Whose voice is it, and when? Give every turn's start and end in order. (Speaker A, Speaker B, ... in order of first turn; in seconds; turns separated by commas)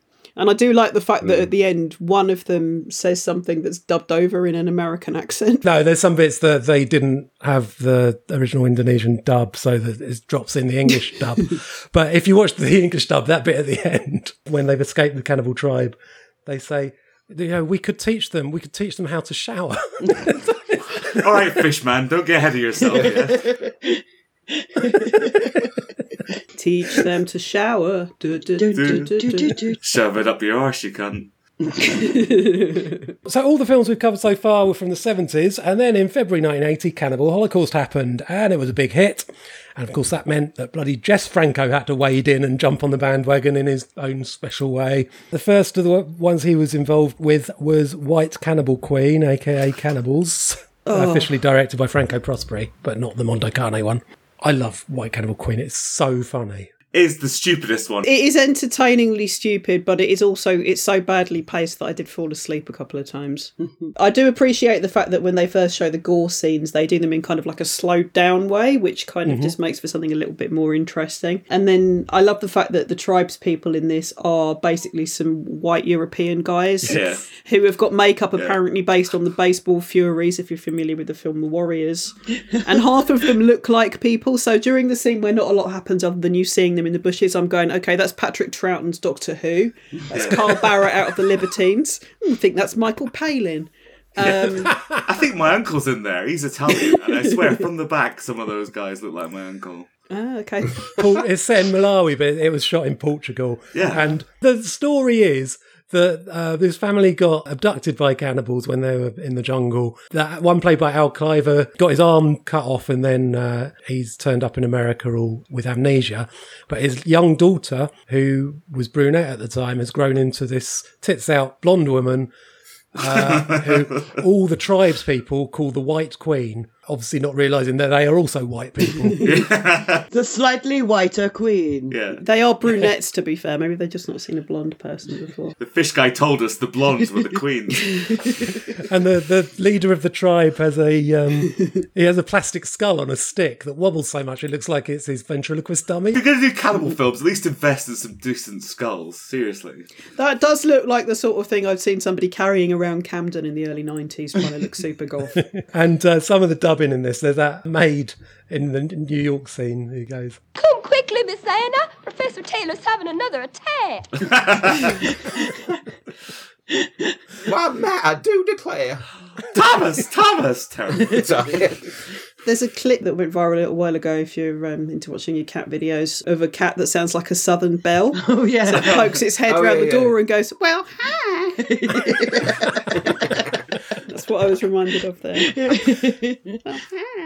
Speaker A: 0.4-5.7, Speaker B: 5.6-20.4, Speaker C: 21.0-23.5, Speaker D: 23.4-23.7, Speaker D: 24.8-25.5, Speaker A: 26.6-29.6, Speaker D: 28.6-29.8, Speaker C: 28.7-29.1, Speaker C: 29.8-31.3, Speaker A: 32.0-33.0, Speaker B: 33.3-56.7, Speaker A: 50.9-51.3, Speaker C: 56.9-58.1, Speaker A: 58.0-94.7, Speaker B: 69.3-69.5, Speaker C: 76.9-77.2, Speaker C: 90.1-90.5, Speaker C: 94.2-99.9, Speaker A: 100.1-101.0, Speaker B: 101.0-122.3, Speaker C: 103.7-104.0, Speaker B: 123.0-129.3, Speaker C: 123.0-124.0, Speaker C: 129.2-130.1, Speaker D: 130.1-132.0, Speaker C: 131.9-132.2, Speaker A: 132.2-135.6, Speaker C: 135.6-138.1, Speaker B: 138.9-146.2, Speaker C: 146.1-149.9, Speaker A: 150.2-155.4, Speaker B: 155.5-160.4, Speaker E: 160.6-164.2, Speaker C: 164.3-164.8, Speaker F: 167.4-169.0, Speaker C: 169.5-171.3, Speaker F: 171.0-171.8, Speaker A: 172.4-181.6, Speaker D: 178.1-179.1, Speaker F: 179.5-180.1, Speaker D: 181.6-183.3, Speaker A: 184.1-186.0, Speaker D: 185.4-186.6, Speaker A: 186.7-186.9